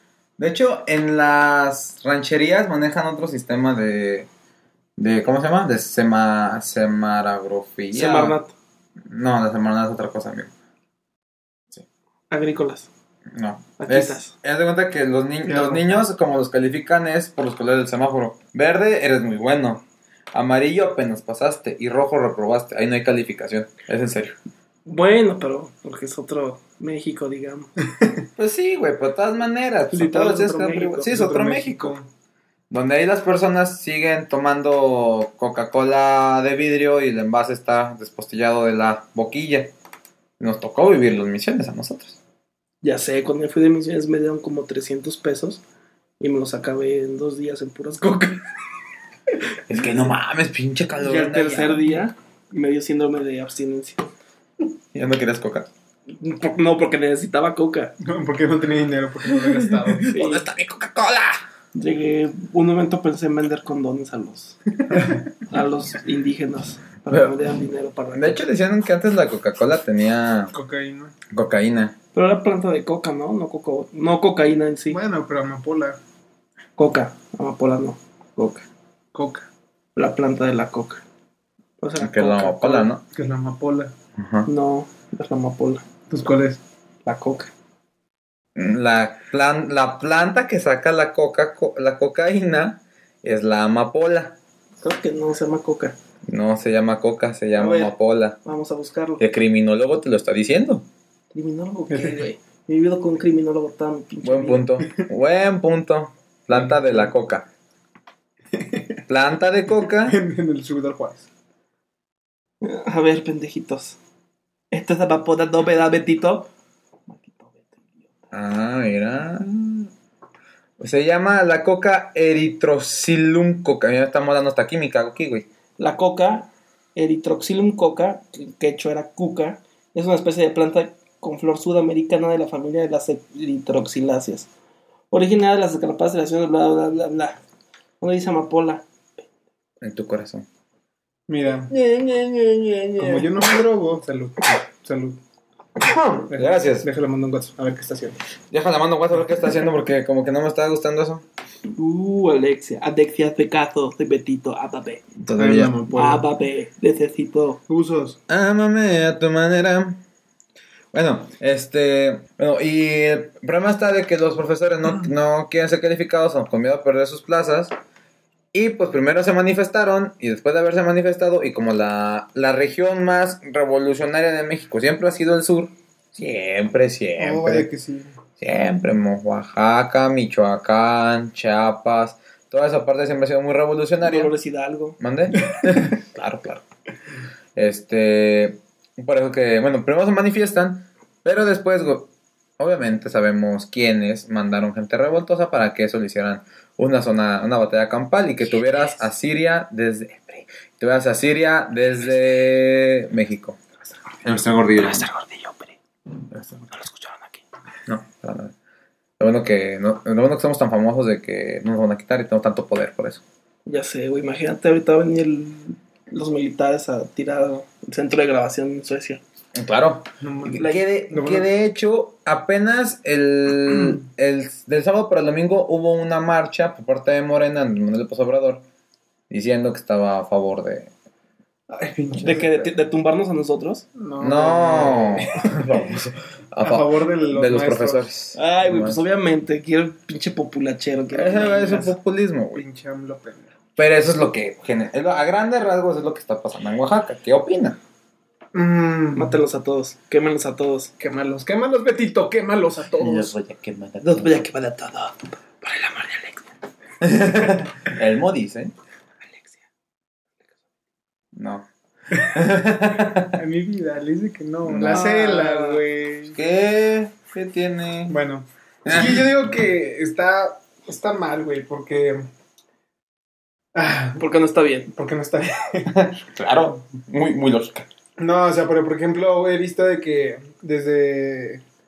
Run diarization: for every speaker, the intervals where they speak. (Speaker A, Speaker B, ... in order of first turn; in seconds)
Speaker A: 0.4-4.3, 5.0-8.4, 9.0-10.5, 13.3-24.4, 28.4-31.9, 32.7-39.7, 40.4-42.2, 49.7-52.0, 54.9-55.7, 59.3-61.4, 67.1-67.3, 68.1-70.5, 71.3-71.9, 82.0-83.0, 84.2-84.5, 88.5-94.4, 96.3-98.4, 99.2-100.8, 104.2-107.5, 109.1-110.2, 118.3-119.9, 120.8-125.5, 139.8-140.4, 146.3-146.9, 148.5-151.2, 155.2-155.7, 158.3-160.0, 160.9-167.7, 168.5-177.7, 178.4-184.3, 185.0-186.6, 187.5-203.6, 204.2-205.1, 206.3-206.7, 207.9-208.5, 209.2-213.2, 219.5-228.6, 229.3-230.9, 234.2-239.0, 241.1-242.6, 243.8-247.8, 253.0-254.4, 257.0-258.7, 261.3-263.4, 264.6-265.1, 266.3-268.2, 268.8-269.3, 275.9-277.9
Speaker B: 7.9-8.5, 12.3-12.9, 13.8-14.3, 15.5-15.9, 24.9-27.7, 29.9-31.1, 42.8-45.6, 46.2-48.4, 51.0-54.1, 56.1-57.9, 60.1-60.4, 61.7-64.6, 65.5-68.4, 72.1-75.0, 76.8-78.6, 80.0-81.0, 81.8-82.9, 84.5-85.8, 87.0-87.5, 94.8-95.9, 97.6-99.2, 101.3-104.6, 112.6-114.0, 114.7-116.5, 117.1-117.8, 125.8-134.5, 135.1-137.4, 138.0-138.8, 141.7-143.3, 151.7-155.0, 155.9-157.6, 184.0-185.0, 198.6-199.0, 204.8-205.7, 206.7-207.4, 213.7-219.2, 232.2-233.8, 238.3-241.9, 249.1-250.9, 254.0-256.5, 259.3-259.6, 264.9-265.8, 274.2-274.9
Speaker C: 31.1-32.0, 58.0-60.1, 70.5-71.1, 74.9-76.0, 79.1-79.5, 83.1-83.9, 86.1-86.6, 101.9-102.2, 106.5-107.0, 108.5-109.0, 109.9-111.2, 141.3-141.7, 143.0-145.2, 146.2-148.2, 155.4-156.3, 157.7-158.2, 177.2-178.1, 220.2-221.5, 231.7-232.7, 233.9-235.9, 236.6-238.1, 242.5-243.5, 248.5-249.4, 251.0-253.3, 263.1-266.4, 268.1-272.2, 273.7-274.2, 274.9-275.9, 278.2-281.6